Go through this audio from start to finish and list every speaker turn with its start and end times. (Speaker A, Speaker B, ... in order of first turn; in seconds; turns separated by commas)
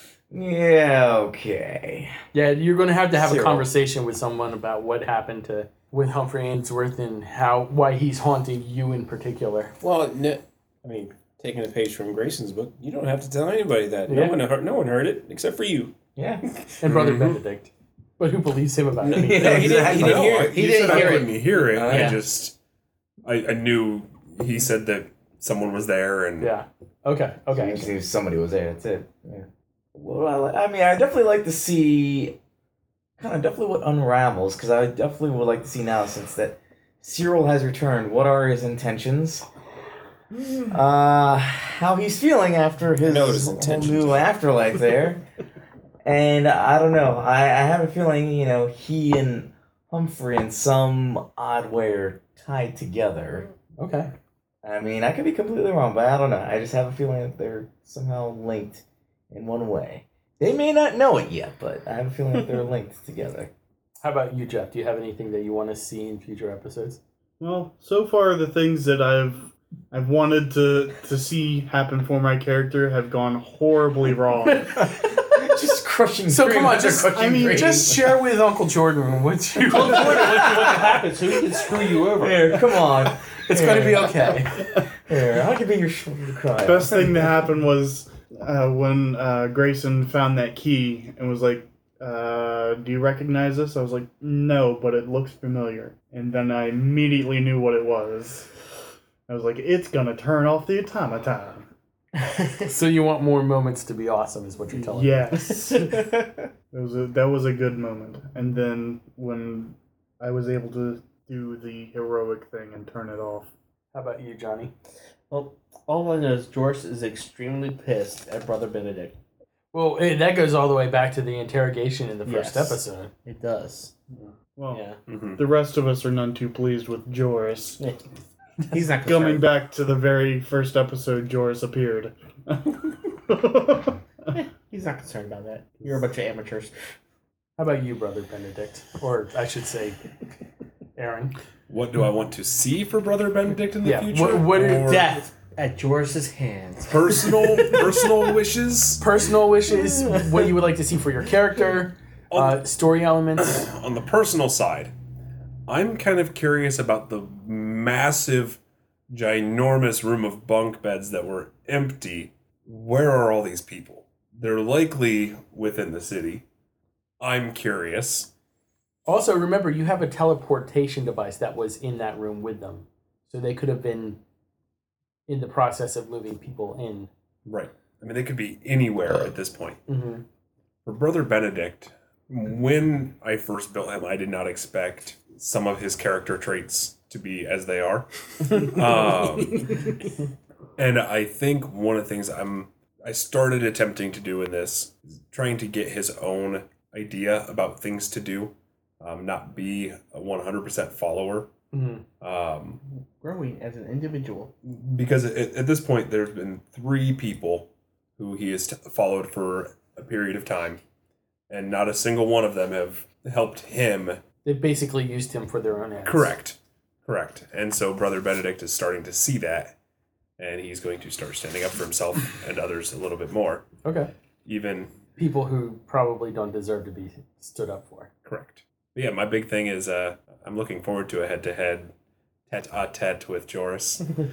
Speaker A: 0.3-2.2, Speaker B: 2.3-9.7, Speaker A: 3.1-3.7, Speaker C: 9.8-15.9, Speaker B: 14.1-14.4, Speaker A: 16.1-16.4, Speaker B: 16.8-19.7, Speaker D: 16.8-17.4, Speaker C: 19.0-21.2, Speaker A: 19.1-22.2, Speaker D: 19.7-22.5, Speaker E: 20.5-22.2, Speaker D: 23.2-26.5, Speaker B: 26.4-27.9, Speaker A: 27.5-32.4, Speaker A: 33.2-39.4, Speaker A: 40.7-45.2, Speaker C: 43.0-44.2, Speaker A: 46.0-53.5, Speaker B: 53.8-54.1, Speaker A: 54.6-63.5, Speaker B: 64.0-67.0, Speaker F: 67.4-74.8, Speaker A: 74.8-78.0, Speaker B: 76.3-80.8, Speaker F: 77.1-77.9, Speaker E: 79.7-82.6, Speaker A: 82.2-87.3, Speaker B: 83.4-84.6, Speaker F: 86.6-98.5, Speaker F: 99.3-101.7, Speaker B: 102.6-105.3, Speaker F: 104.7-106.0, Speaker E: 105.5-106.3, Speaker F: 106.7-113.5, Speaker B: 113.9-114.7, Speaker E: 115.3-119.2, Speaker B: 119.7-123.1, Speaker E: 122.2-123.9, Speaker F: 124.5-127.8, Speaker E: 124.7-125.0, Speaker D: 125.1-125.4, Speaker E: 128.7-129.5, Speaker F: 129.0-134.0, Speaker E: 134.3-136.7, Speaker B: 137.6-140.0, Speaker B: 140.9-141.3, Speaker D: 141.7-145.2, Speaker B: 143.8-144.9, Speaker E: 144.7-148.2, Speaker D: 146.8-149.0, Speaker B: 149.0-153.7, Speaker E: 150.0-150.4, Speaker D: 152.3-152.6, Speaker D: 153.4-154.9, Speaker D: 155.7-166.4, Speaker D: 167.2-168.3, Speaker B: 169.1-174.2, Speaker B: 175.3-177.1, Speaker D: 177.4-179.8, Speaker B: 179.9-180.2, Speaker D: 180.8-189.9, Speaker D: 190.8-201.5, Speaker B: 201.7-202.0, Speaker D: 202.2-202.8, Speaker E: 203.2-204.5, Speaker D: 204.6-210.8, Speaker D: 211.5-214.2, Speaker B: 214.4-216.3, Speaker D: 216.0-219.8, Speaker D: 220.4-223.7, Speaker B: 223.8-224.1, Speaker D: 224.4-224.9, Speaker B: 225.2-228.1, Speaker D: 228.2-231.9, Speaker D: 232.5-234.1